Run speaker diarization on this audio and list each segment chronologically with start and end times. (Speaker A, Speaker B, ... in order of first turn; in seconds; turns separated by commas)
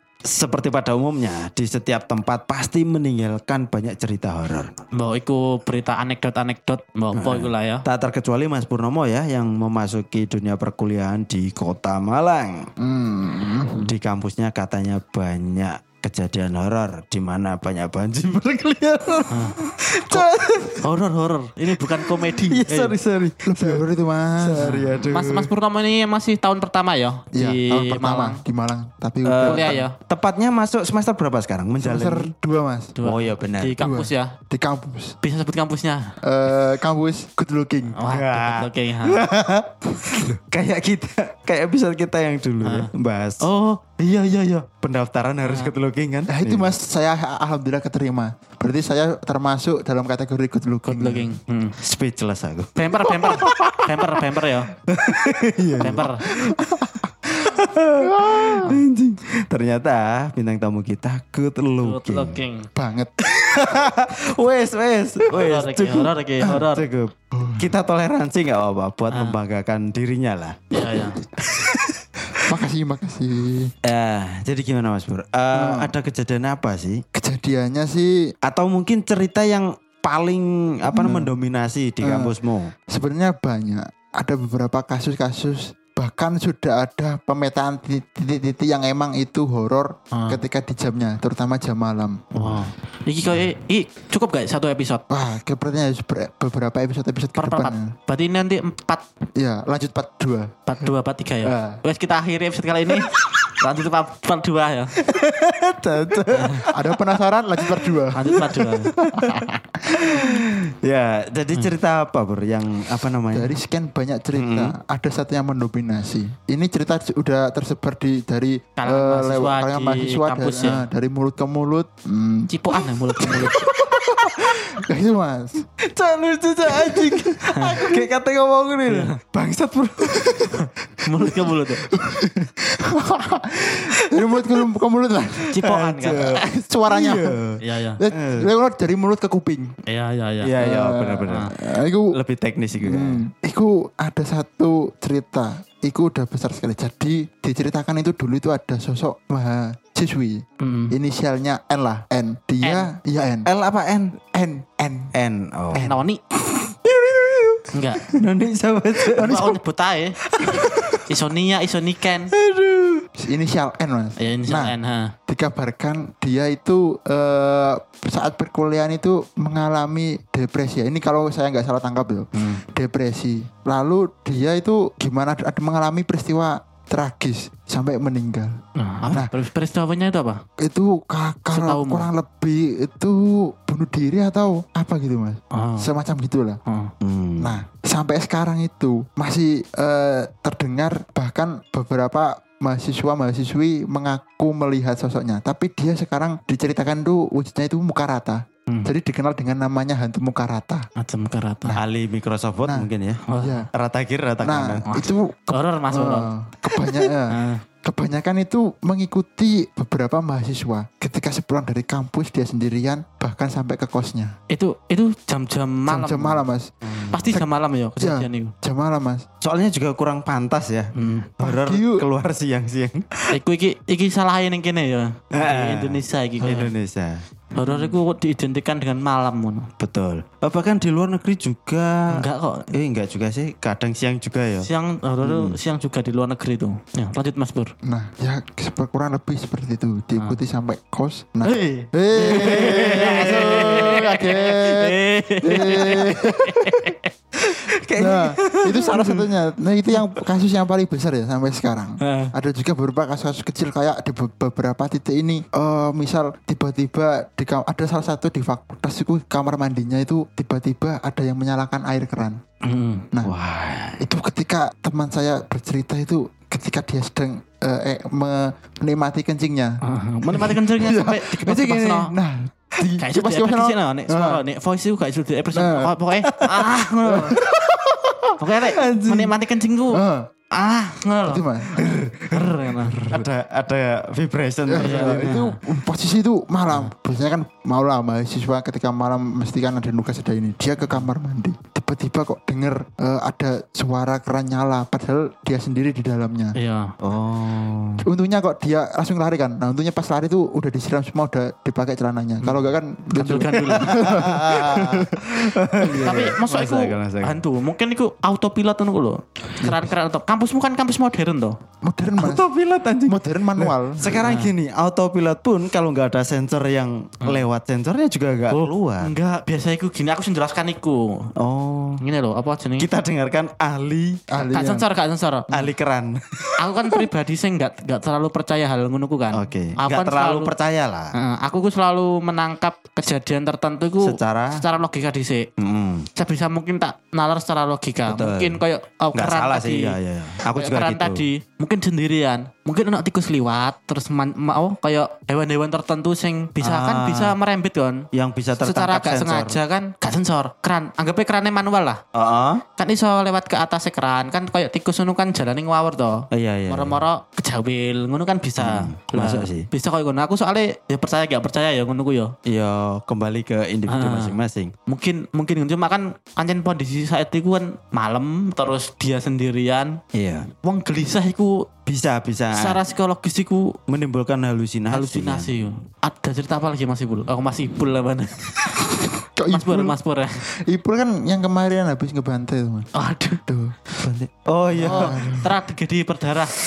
Speaker A: 0.3-4.7, Speaker B: 4.9-7.8, Speaker A: 7.2-12.7, Speaker C: 12.8-13.8, Speaker A: 13.8-20.8, Speaker B: 19.3-19.6, Speaker B: 20.8-22.9, Speaker A: 21.9-23.9, Speaker C: 23.5-24.8, Speaker A: 24.4-25.5, Speaker B: 24.6-28.4, Speaker C: 27.3-29.9, Speaker A: 29.2-32.3, Speaker B: 29.4-30.0, Speaker C: 31.8-33.0, Speaker B: 33.0-34.4, Speaker A: 33.0-33.8, Speaker C: 33.8-35.1, Speaker B: 35.2-36.1, Speaker C: 36.2-38.0, Speaker B: 38.0-39.2, Speaker A: 38.1-43.5, Speaker B: 42.6-42.9, Speaker B: 43.4-44.2, Speaker A: 44.2-46.7, Speaker B: 45.5-45.7, Speaker C: 46.3-51.4, Speaker B: 50.9-51.8, Speaker A: 51.8-54.2, Speaker B: 52.8-54.7, Speaker A: 54.9-62.3, Speaker B: 55.8-56.2, Speaker C: 56.6-57.0, Speaker C: 58.0-58.7, Speaker B: 61.8-62.7, Speaker C: 62.8-63.1, Speaker A: 63.3-70.8, Speaker B: 65.3-66.9, Speaker C: 67.3-67.7, Speaker B: 69.1-69.4, Speaker B: 70.7-71.2, Speaker A: 71.4-72.0, Speaker C: 72.5-73.7, Speaker A: 73.8-77.0, Speaker C: 75.5-75.9, Speaker C: 77.2-78.3, Speaker A: 78.4-82.7, Speaker C: 80.9-81.3, Speaker C: 82.0-82.3, Speaker C: 82.9-92.2, Speaker B: 90.1-90.4, Speaker B: 92.3-95.0, Speaker C: 95.1-97.9, Speaker B: 97.4-99.0, Speaker C: 99.4-100.5, Speaker B: 100.7-104.9, Speaker C: 101.4-101.8, Speaker A: 105.0-107.0, Speaker B: 106.4-106.6, Speaker C: 106.7-108.5, Speaker A: 108.0-109.5, Speaker B: 108.1-108.9, Speaker C: 109.1-110.5, Speaker A: 110.2-113.5, Speaker C: 113.3-125.6, Speaker A: 114.3-114.7, Speaker B: 118.8-120.9, Speaker B: 122.5-123.6, Speaker A: 123.5-124.3, Speaker A: 125.9-130.7, Speaker C: 126.7-128.0, Speaker B: 127.5-127.8, Speaker B: 128.9-129.2, Speaker C: 130.1-130.6, Speaker B: 130.5-131.8, Speaker C: 131.9-135.6, Speaker B: 135.5-136.4, Speaker A: 135.6-137.6, Speaker C: 136.4-137.4, Speaker B: 137.6-138.0, Speaker C: 138.0-139.7, Speaker A: 138.1-138.5, Speaker B: 139.9-140.5, Speaker A: 140.4-141.5, Speaker C: 140.6-142.1, Speaker A: 142.1-143.2, Speaker C: 142.8-153.5, Speaker B: 150.6-150.9, Speaker B: 152.6-152.9, Speaker A: 153.5-154.2, Speaker C: 154.3-155.1, Speaker A: 155.1-155.8, Speaker C: 155.7-156.0, Speaker B: 155.8-156.2, Speaker A: 156.6-159.4, Speaker B: 157.7-158.1, Speaker C: 159.1-159.6, Speaker B: 159.2-160.2, Speaker A: 160.3-161.0, Speaker B: 161.1-162.3, Speaker A: 162.3-163.1, Speaker C: 163.2-164.8, Speaker B: 164.2-165.1, Speaker C: 165.3-178.5, Speaker B: 172.4-172.6, Speaker B: 178.8-180.4, Speaker C: 180.6-186.6, Speaker B: 181.5-182.1, Speaker B: 185.5-185.9, Speaker B: 186.7-186.9, Speaker A: 187.0-187.6, Speaker C: 187.4-200.9, Speaker B: 198.7-198.9, Speaker B: 201.0-201.8, Speaker A: 201.8-203.2, Speaker B: 203.2-203.7, Speaker C: 203.4-203.7, Speaker A: 203.7-204.9, Speaker C: 204.4-214.3, Speaker B: 204.9-207.6, Speaker B: 214.5-216.4, Speaker C: 215.9-216.7, Speaker A: 216.9-217.2, Speaker B: 217.1-218.5, Speaker C: 217.3-219.2, Speaker A: 219.4-223.3, Speaker B: 220.9-221.3, Speaker C: 221.4-222.1, Speaker B: 223.3-226.7, Speaker A: 225.3-227.2, Speaker B: 227.5-229.7, Speaker A: 229.8-234.7, Speaker B: 232.1-232.7, Speaker B: 234.6-237.7, Speaker A: 235.2-235.6, Speaker C: 237.9-246.5, Speaker B: 241.4-247.1, Speaker A: 242.2-244.2, Speaker A: 245.6-246.9, Speaker A: 247.4-249.2, Speaker C: 248.0-262.4, Speaker B: 252.0-252.3, Speaker B: 262.6-263.1, Speaker A: 263.2-264.0, Speaker C: 264.0-274.4, Speaker B: 269.8-272.1, Speaker B: 273.0-277.4, Speaker C: 275.5-275.9, Speaker A: 276.3-277.8, Speaker C: 277.2-278.3, Speaker B: 278.4-281.5, Speaker A: 278.6-279.4, Speaker C: 279.9-280.3, Speaker C: 281.3-281.7, Speaker A: 281.7-285.4, Speaker B: 282.3-283.0, Speaker C: 284.7-296.6, Speaker B: 284.8-285.6, Speaker B: 296.6-296.9, Speaker A: 297.0-298.1, Speaker C: 298.0-306.1, Speaker B: 303.2-303.9, Speaker A: 303.8-307.4, Speaker B: 306.0-311.6, Speaker C: 309.6-309.9, Speaker C: 311.8-312.5, Speaker A: 312.2-319.1, Speaker C: 313.1-314.1, Speaker B: 314.1-314.5, Speaker B: 318.5-321.3, Speaker A: 321.4-322.0, Speaker B: 322.0-322.9, Speaker A: 322.8-324.2, Speaker C: 324.3-324.9, Speaker B: 324.4-325.5, Speaker A: 325.5-327.0, Speaker B: 326.6-330.5, Speaker A: 329.3-331.1, Speaker B: 331.1-335.5, Speaker A: 334.0-334.6, Speaker A: 335.6-336.1, Speaker B: 336.1-340.0, Speaker A: 338.1-338.6, Speaker A: 339.1-341.3, Speaker B: 340.6-348.1, Speaker A: 346.6-347.4, Speaker A: 348.1-349.6, Speaker B: 348.6-352.0, Speaker A: 352.1-352.6, Speaker B: 352.8-362.3, Speaker A: 356.3-357.0, Speaker A: 358.6-359.7, Speaker A: 362.5-364.7, Speaker B: 363.9-370.0, Speaker A: 370.1-370.5, Speaker B: 370.6-371.6, Speaker A: 371.9-372.8, Speaker B: 372.6-373.8, Speaker A: 373.9-375.5, Speaker B: 374.9-378.6, Speaker C: 379.4-380.0, Speaker B: 379.5-380.4, Speaker C: 380.7-382.9, Speaker B: 382.9-383.4, Speaker C: 383.5-383.8, Speaker A: 384.0-385.2, Speaker C: 384.8-385.5, Speaker B: 384.8-386.5